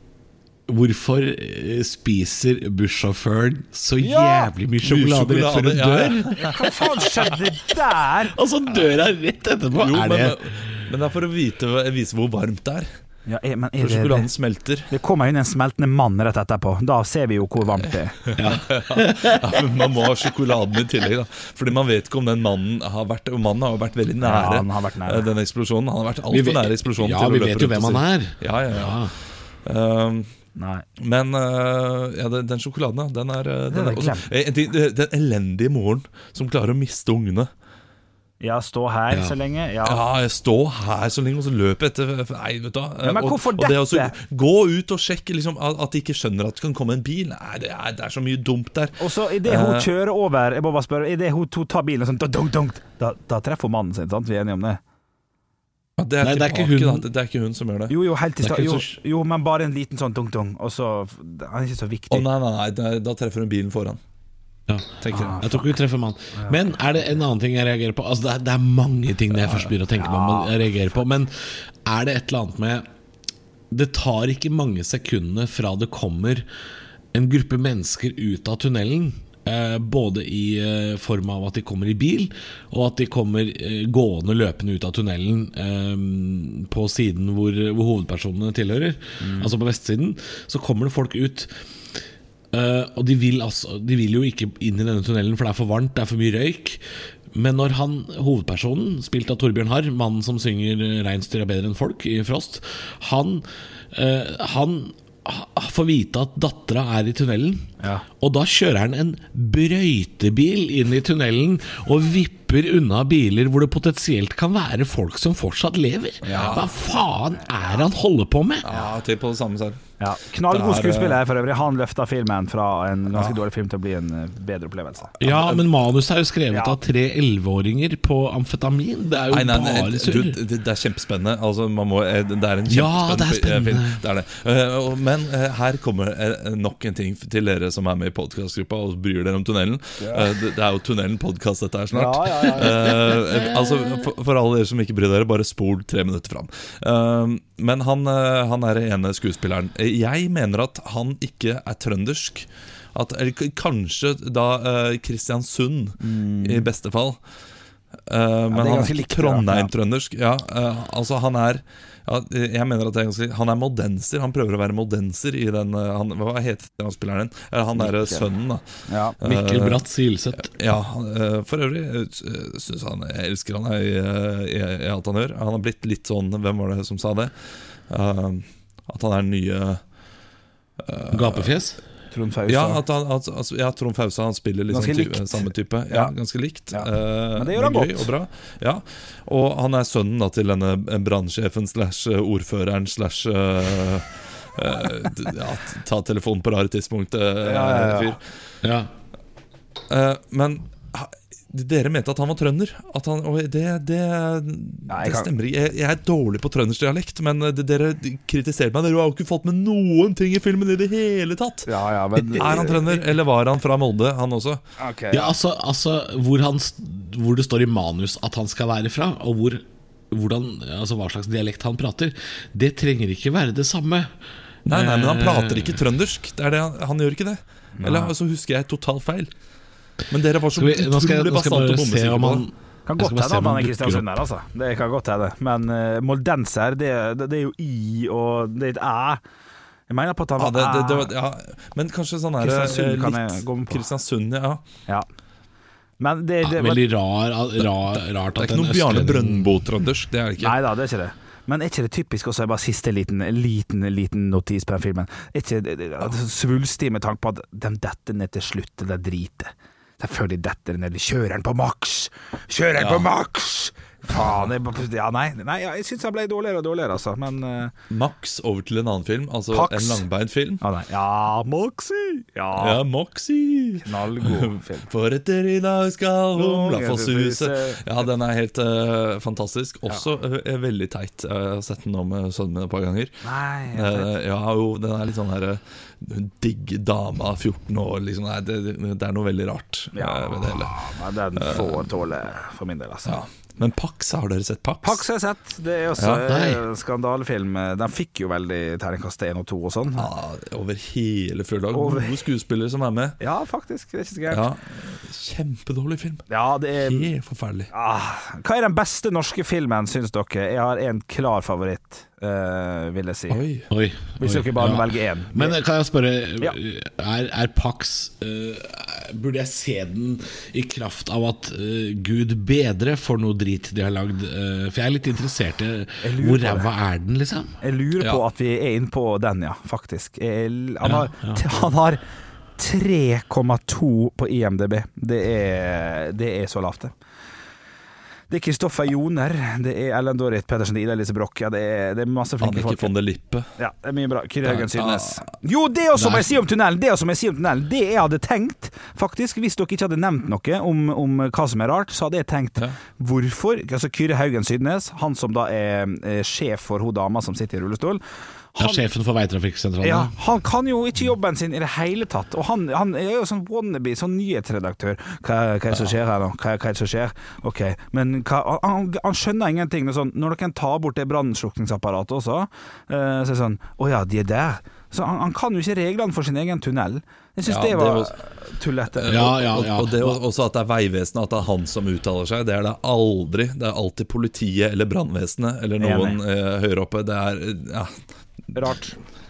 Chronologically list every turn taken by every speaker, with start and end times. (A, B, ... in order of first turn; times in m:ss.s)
0:00.7-0:06.6 A
0:04.0-0:04.5 B
0:04.8-0:06.7 C
0:06.4-0:08.4 B
0:08.3-0:10.8 A
0:09.7-0:12.9 C
0:13.3-0:14.3 B
0:13.8-0:14.9 C
0:14.9-0:18.2 B
0:18.3-0:29.1 C
0:18.4-0:19.7 A
0:24.2-0:25.3 B
0:26.3-0:29.1 A
0:29.6-0:30.3 C
0:30.6-0:30.8 B
0:31.0-0:37.5 C
0:33.7-0:34.2 B
0:38.4-0:40.0 B
0:39.8-0:49.9 C
0:43.0-0:44.1 B
0:49.0-0:54.8 B
0:56.0-0:58.0 C
0:56.2-0:57.0 A
0:57.9-1:02.3 B
0:58.4-0:58.7 A
1:02.1-1:04.0 C
1:04.7-1:12.8 A
1:05.0-1:05.6 C
1:05.1-1:05.6 B
1:10.0-1:10.5 B
1:13.7-1:16.4 A
1:17.1-1:31.5 A
1:29.2-1:29.5 B
1:32.5-1:58.8 A
1:56.2-1:56.6 B
1:56.3-1:56.7 C
1:58.6-1:59.8 C
2:00.0-2:05.1 B
2:00.5-2:01.2 C
2:03.1-2:03.4 C
2:05.2-2:10.4 A
2:05.2-2:05.6 C
2:06.5-2:06.8 B
2:09.3-2:37.2 C
2:12.7-2:14.0 A
2:20.0-2:20.3 B
2:21.9-2:23.2 B
2:36.0-2:36.7 B
2:38.1-2:49.8 C
2:38.5-2:39.7 B
2:47.8-2:48.2 B
2:48.9-2:49.1 B
2:49.2-2:50.5 A
2:50.4-2:59.8 C
3:00.8-3:01.5 C
3:01.1-3:01.8 A
3:02.1-3:02.8 B
3:02.5-3:18.2 C
3:04.7-3:06.1 B
3:06.7-3:08.1 B
3:17.4-3:18.1 B
3:18.6-3:18.9 A
3:19.9-3:34.6 C
3:24.9-3:25.3 B
3:31.7-3:33.0 B
3:34.8-3:35.3 B
3:35.1-3:44.1 A
3:44.6-3:49.3 C
3:44.7-3:45.8 A
3:47.8-3:48.1 B
3:50.1-3:52.4 C
3:50.6-3:54.0 A
3:52.8-3:59.2 B
3:59.9-4:01.1 B
4:00.4-4:04.6 C
4:02.4-4:03.8 B
4:06.0-4:06.8 B
4:06.4-4:09.5 A
4:07.9-4:10.5 C
4:10.4-4:27.7 B
4:22.8-4:23.1 C
4:24.1-4:24.5 C
4:27.9-4:30.6 C
4:29.5-4:30.0 B
4:30.6-4:32.8 B
4:32.6-4:50.8 C
4:33.8-4:34.9 B
4:36.4-4:37.8 B
4:43.2-4:44.1 B
4:49.9-4:53.2 B
4:51.4-4:51.8 C
4:53.0-4:55.0 C
4:54.8-5:00.1 B
4:56.0-4:56.2 C
4:56.2-4:56.6 A
5:00.0-5:03.2 C
5:01.7-5:02.1 B
5:03.2-5:04.4 B
5:04.3-5:06.2 C
5:06.3-5:07.1 B
5:06.8-5:07.7 C
5:07.7-5:13.4 B
5:13.3-5:13.7 C
5:13.7-5:27.6 A
5:14.2-5:15.6 B
5:26.0-5:26.7 B
5:27.6-5:32.0 B
5:30.8-5:31.4 A
5:32.6-5:36.9 B
5:38.3-5:42.9 B
5:42.4-5:43.5 C
5:43.6-5:58.0 B
5:44.5-5:45.2 C
5:46.0-5:46.3 A
5:58.5-5:58.8 B
5:58.6-6:00.2 A
5:59.8-6:19.5 B
6:17.5-6:18.1 C
6:18.9-6:28.0 C
6:19.1-6:20.2 A
6:25.8-6:26.2 B
6:28.5-6:29.0 B